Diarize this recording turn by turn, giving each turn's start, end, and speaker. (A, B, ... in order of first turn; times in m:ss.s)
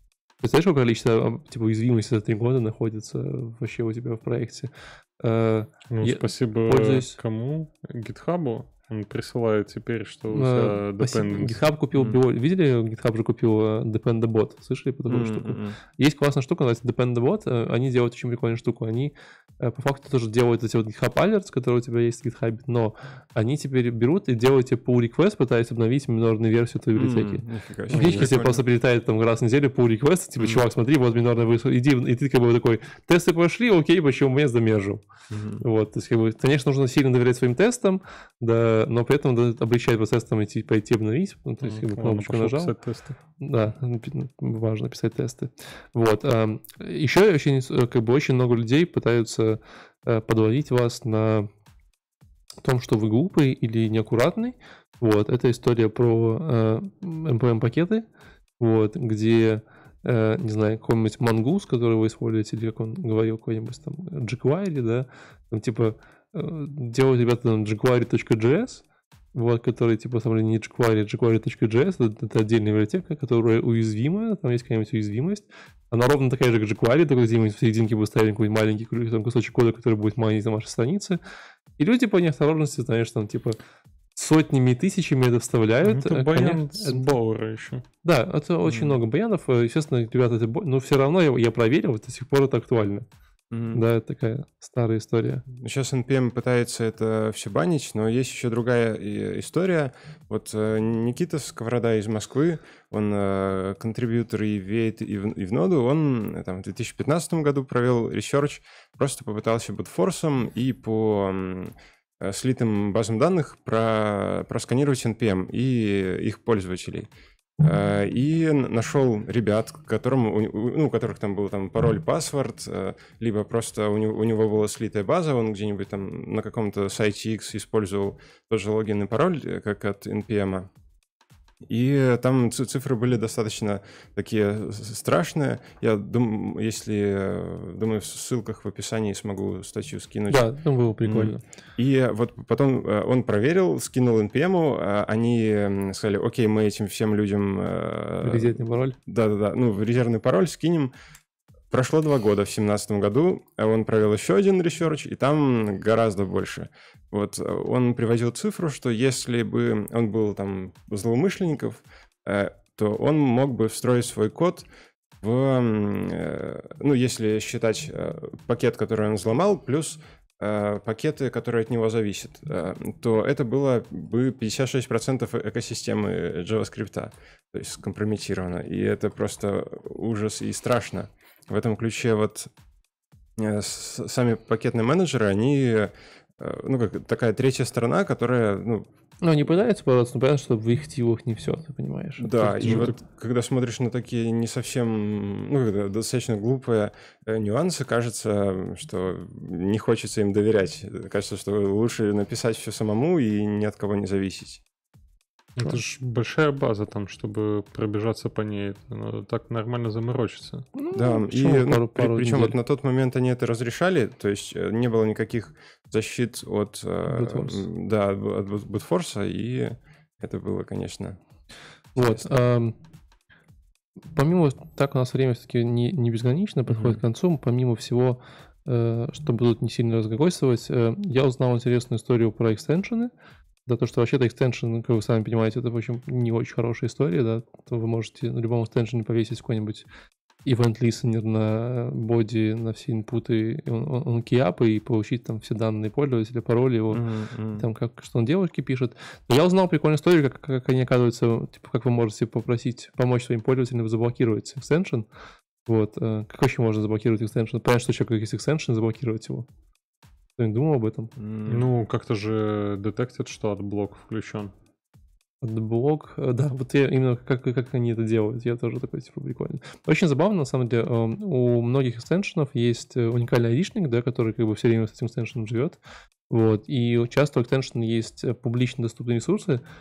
0:00.4-0:07.2 A
0:05.9-0:12.2 B
0:10.3-0:35.0 A
0:15.1-0:15.7 C
0:27.0-0:28.6 C
0:27.9-0:28.3 B
0:30.4-0:30.6 C
0:35.3-0:35.6 C
0:35.6-0:42.7 A
0:41.6-0:43.2 B
0:43.4-0:51.5 A
0:52.6-0:58.1 A
0:58.6-1:21.2 A
1:21.8-1:23.6 A
1:24.2-1:27.1 A
1:25.8-1:27.8 B
1:28.0-1:33.1 A
1:28.6-1:29.0 C
1:33.5-1:33.8 C
1:33.7-1:35.5 A
1:35.5-2:10.7 C
2:11.7-2:20.4 C
2:20.3-2:21.4 A
2:21.0-2:30.9 C
2:28.2-2:29.0 A
2:31.7-2:44.7 C
2:45.2-3:02.5 C
3:03.4-3:08.9 C
3:09.2-3:12.9 A
3:12.2-3:24.6 C
3:12.6-3:13.0 B
3:25.6-3:30.7 B
3:30.8-3:32.6 A
3:30.9-3:41.2 C
3:37.1-3:37.7 A
3:42.0-3:42.7 A
3:42.0-3:42.3 C
3:44.1-3:53.1 A
3:46.7-3:47.0 C
3:53.6-3:59.9 A
4:00.4-4:07.0 A
4:06.9-4:07.7 C
4:07.6-4:15.1 A
4:15.7-4:19.5 A
4:20.4-4:21.1 A
4:21.2-4:21.7 C
4:21.5-4:24.5 B
4:25.4-4:35.8 A
4:36.3-4:39.6 A